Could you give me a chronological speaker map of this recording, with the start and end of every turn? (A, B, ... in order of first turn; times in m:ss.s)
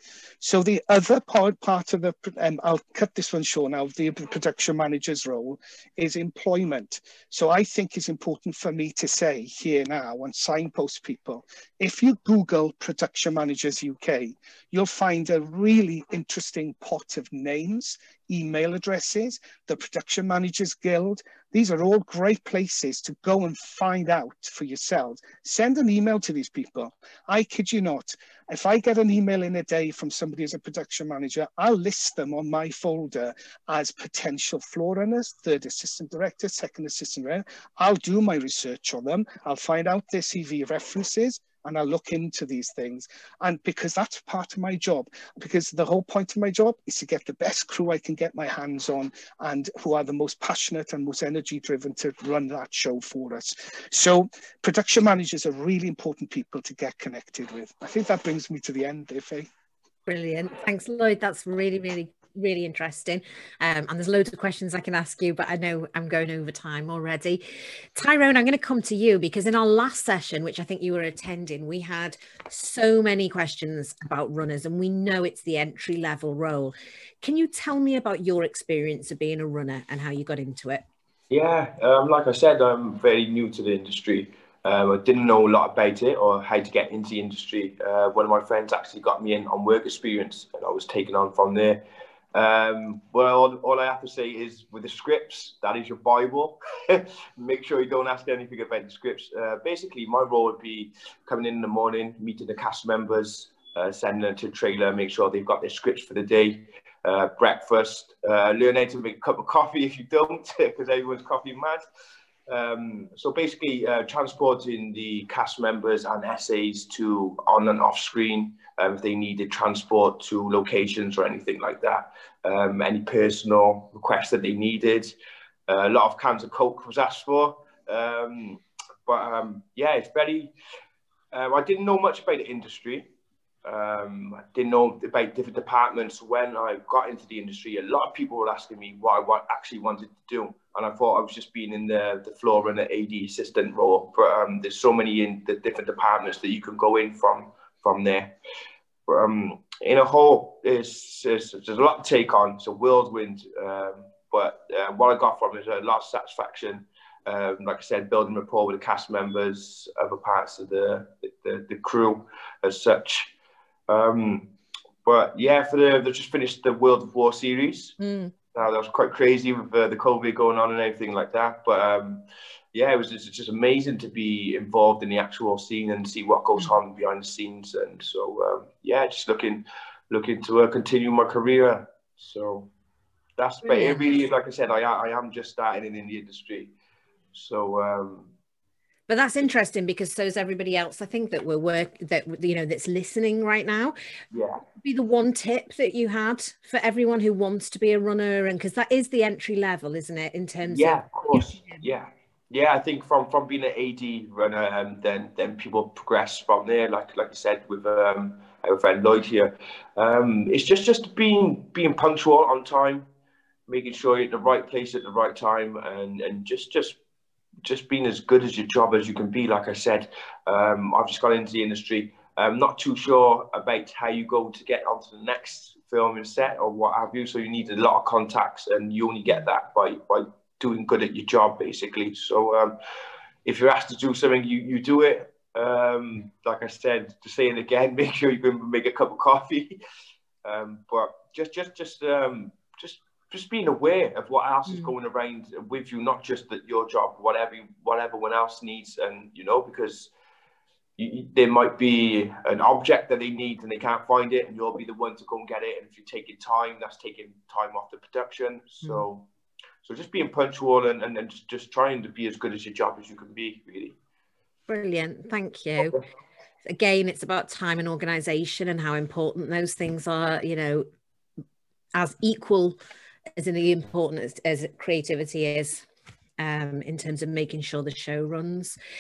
0:00.4-0:59.5 A
1:00.1-1:07.4 B
1:08.0-1:20.8 B
1:21.3-1:51.8 C
1:52.5-2:05.2 C
2:05.7-2:10.5 C
2:11.3-2:13.1 C
2:13.6-2:28.4 C
2:29.1-2:43.3 C
2:43.9-2:44.5 C
2:45.0-2:48.0 C
2:48.0-2:48.3 B
2:48.5-3:02.7 C
3:03.4-3:06.7 C
3:03.7-3:04.2 B
3:07.3-3:08.3 C
3:09.1-3:14.0 B
3:14.3-3:14.6 C
3:14.8-3:21.8 B
3:20.6-3:33.1 C
3:33.7-3:37.0 C
3:37.6-3:52.8 C
3:53.4-3:59.8 C
4:00.4-4:10.1 C
4:11.0-4:19.3 C
4:19.8-4:24.0 C
4:24.7-4:26.0 B
4:26.7-4:30.9 B
4:32.0-4:32.8 B
4:33.4-4:35.8 B
4:36.4-4:38.8 B